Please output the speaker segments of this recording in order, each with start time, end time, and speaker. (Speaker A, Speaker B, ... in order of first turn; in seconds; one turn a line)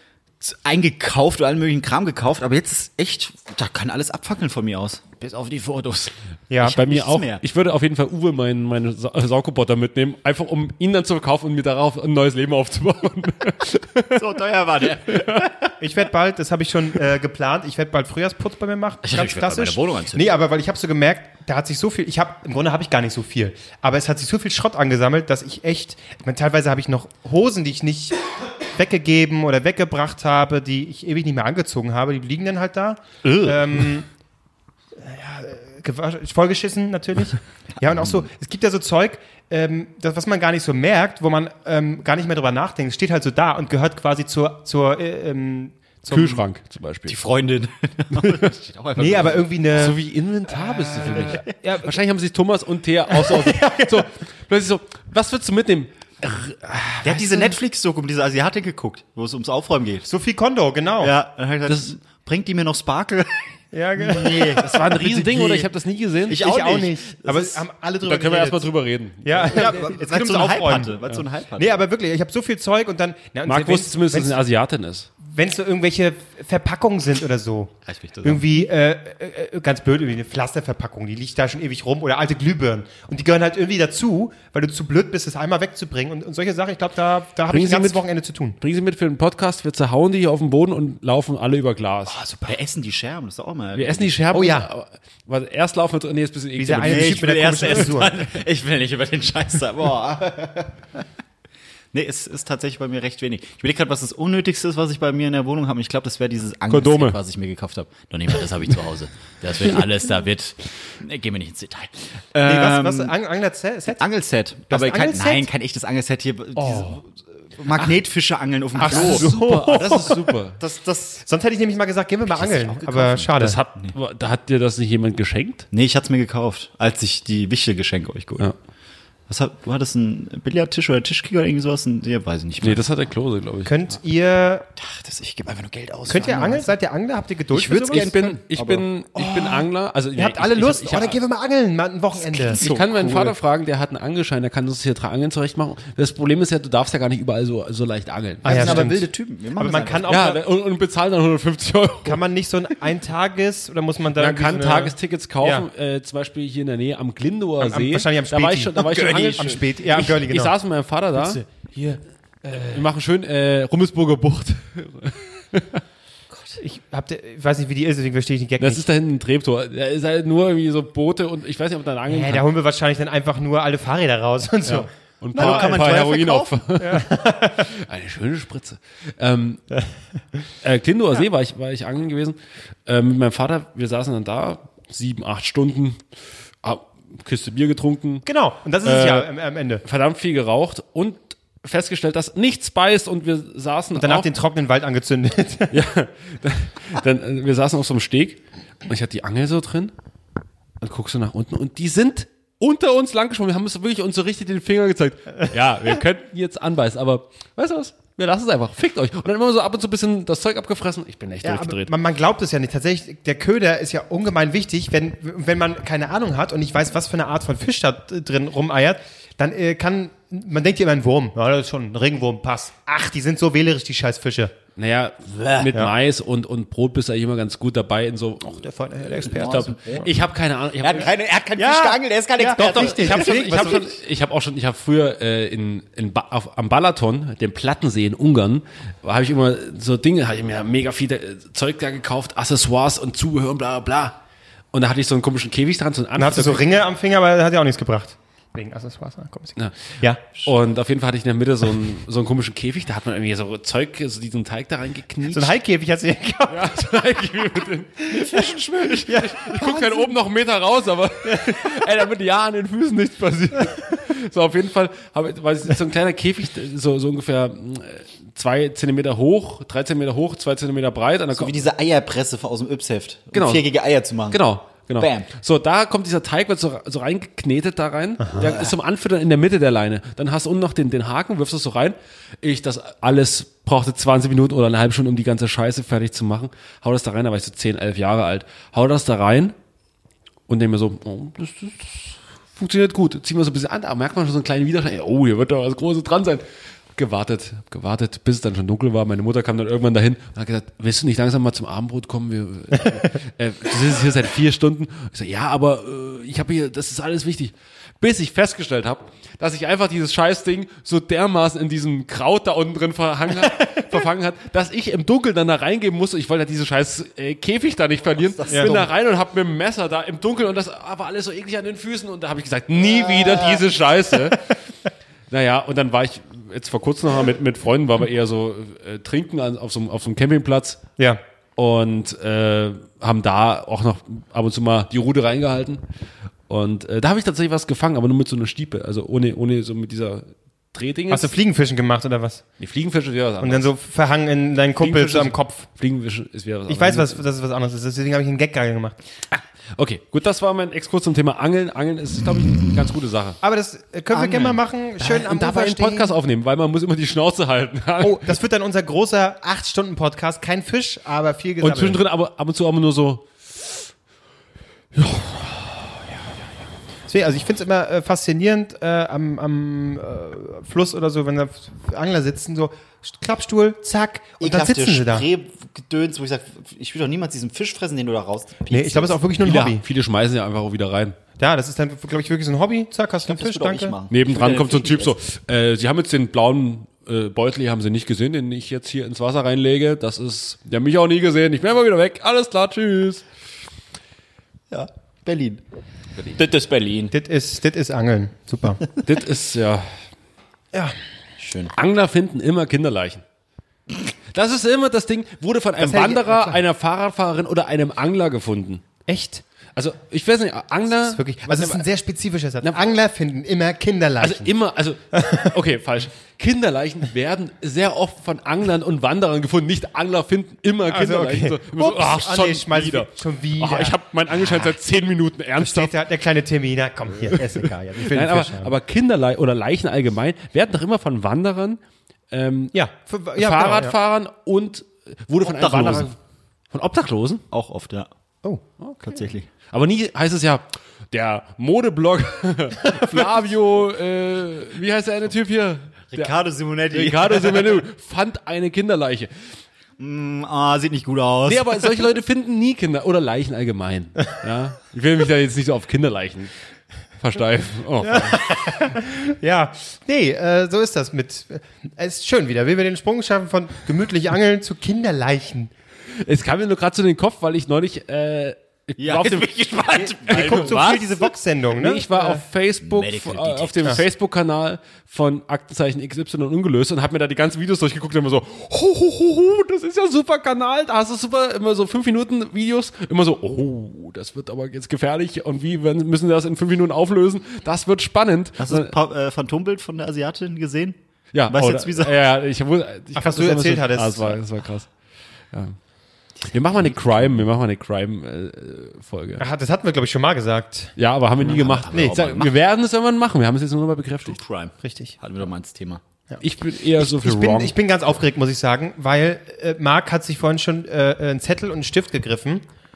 Speaker A: 0.4-7.4
Speaker B: 6.5-6.8
Speaker C: 6.6-14.3
Speaker A: 14.1-15.7
Speaker C: 15.1-15.5
Speaker B: 15.8-34.1
Speaker A: 19.0-20.3
Speaker C: 33.2-33.9
Speaker B: 35.0-46.4
Speaker A: 37.8-38.3
Speaker C: 46.1-47.2
Speaker A: 47.1-49.5
Speaker C: 48.2-48.5
Speaker B: 49.0-50.0
Speaker C: 49.7-57.3
Speaker B: 50.5-52.0
Speaker A: 51.1-51.4
Speaker B: 53.1-54.1
Speaker A: 57.0-60.1
Speaker B: 60.1-61.1
Speaker A: 61.0-65.7
Speaker C: 61.7-61.9
Speaker B: 63.7-64.7
Speaker C: 64.6-66.4
Speaker A: 66.3-67.6
Speaker B: 66.3-71.0
Speaker C: 68.0-69.8
Speaker A: 69.5-71.8
Speaker B: 71.6-74.4
Speaker C: 73.5-75.1
Speaker B: 75.2-88.6
Speaker A: 77.9-78.5
Speaker C: 87.5-88.0
Speaker C: 88.6-92.2
Speaker B: 92.1-92.6
Speaker A: 92.5-94.2
Speaker C: 93.8-97.9
Speaker B: 94.3-94.7
Speaker B: 96.6-98.2
Speaker A: 96.8-101.0
Speaker A: 101.9-113.1
Speaker C: 106.7-107.2
Speaker B: 112.4-114.0
Speaker A: 113.9-121.2
Speaker B: 114.7-115.5
Speaker B: 116.6-117.0
Speaker B: 118.8-120.2
Speaker C: 118.8-120.6
Speaker B: 121.3-123.6
Speaker A: 122.3-124.0
Speaker C: 123.4-125.7
Speaker A: 125.7-128.5
Speaker A: 129.3-132.8
Speaker C: 132.6-133.7
Speaker B: 133.7-134.7
Speaker A: 134.8-136.7
Speaker B: 136.1-138.2
Speaker A: 137.5-138.9
Speaker C: 137.9-141.2
Speaker B: 139.2-143.2
Speaker A: 142.4-143.3
Speaker C: 142.5-149.1
Speaker B: 148.4-149.0
Speaker A: 148.4-150.1
Speaker B: 149.6-150.4
Speaker C: 150.1-152.2
Speaker B: 152.1-155.7
Speaker C: 154.2-161.6
Speaker B: 157.6-160.5
Speaker B: 161.1-162.9
Speaker C: 162.7-165.8
Speaker A: 166.3-166.6
Speaker B: 166.6-168.8
Speaker C: 168.6-172.5
Speaker B: 172.1-175.8
Speaker C: 174.7-177.1
Speaker A: 175.3-176.7
Speaker B: 176.8-177.7
Speaker C: 177.7-179.7
Speaker C: 180.6-186.0
Speaker C: 186.6-188.3
Speaker B: 188.2-189.8
Speaker C: 188.8-189.3
Speaker C: 189.8-194.3
Speaker B: 194.0-195.8
Speaker C: 195.7-199.9
Speaker C: 200.8-211.9
Speaker B: 211.4-224.5
Speaker C: 224.8-231.1
Speaker B: 228.4-230.1
Speaker A: 229.4-230.1
Speaker A: 230.8-233.9
Speaker B: 231.6-233.9
Speaker C: 232.6-244.2
Speaker C: 244.7-246.6
Speaker B: 246.2-250.2
Speaker C: 249.6-255.5
Speaker B: 255.3-256.8
Speaker C: 256.5-271.6
Speaker B: 259.1-260.1
Speaker B: 261.2-261.8
Speaker A: 271.3-274.4
Speaker C: 273.3-273.7
Speaker C: 274.3-289.6
Speaker A: 275.0-275.3
Speaker A: 278.4-278.8
Speaker C: 290.5-296.4
Speaker C: 297.0-324.5
Speaker A: 318.2-318.9
Speaker B: 318.5-318.8
Speaker A: 322.8-323.6
Speaker C: 325.3-330.8
Speaker C: 331.6-335.8
Speaker C: 336.5-341.3
Speaker B: 341.1-342.4
Speaker C: 342.6-343.7
Speaker B: 343.4-345.7
Speaker C: 344.8-347.2
Speaker B: 346.7-349.0
Speaker C: 349.3-353.4
Speaker B: 353.4-356.1
Speaker A: 354.2-354.5
Speaker C: 354.3-358.4
Speaker B: 358.0-362.0
Speaker C: 361.6-363.9
Speaker C: 364.9-365.9
Speaker B: 367.1-375.3
Speaker A: 374.4-379.2
Speaker B: 378.7-379.8
Speaker C: 379.4-381.2
Speaker B: 381.4-383.9
Speaker A: 383.2-385.1
Speaker C: 384.1-393.3
Speaker A: 394.7-395.6
Speaker C: 396.2-397.1
Speaker B: 397.1-398.8
Speaker C: 399.0-400.0
Speaker A: 401.4-401.7
Speaker C: 401.7-403.2
Speaker C: 404.3-408.8
Speaker B: 405.8-406.6
Speaker B: 409.1-409.4
Speaker C: 409.8-411.8
Speaker B: 411.1-414.5
Speaker C: 414.2-425.9
Speaker B: 415.1-415.5
Speaker B: 420.9-423.9
Speaker B: 425.6-428.7
Speaker C: 427.3-431.8
Speaker C: 432.3-432.8
Speaker B: 432.7-433.9
Speaker C: 433.4-436.2
Speaker A: 435.4-436.1
Speaker C: 436.7-437.4
Speaker A: 437.5-438.1
Speaker A: 439.0-439.5
Speaker C: 439.7-449.6
Speaker A: 446.1-447.8
Speaker A: 450.0-451.9
Speaker C: 451.5-456.5
Speaker C: 457.2-458.4
Speaker B: 458.0-465.7
Speaker C: 466.2-488.9
Speaker A: 469.0-471.0
Speaker B: 469.9-472.4
Speaker A: 472.8-474.0
Speaker A: 488.6-492.2
Speaker C: 491.3-494.9
Speaker B: 493.1-494.4
Speaker C: 495.5-495.8
Speaker C: 496.4-499.4
Speaker A: 496.8-497.3
Speaker B: 499.4-500.9
Speaker C: 501.0-504.4
Speaker A: 501.4-502.5
Speaker A: 504.2-506.0
Speaker B: 504.8-505.2
Speaker C: 506.4-507.7
Speaker B: 507.0-512.6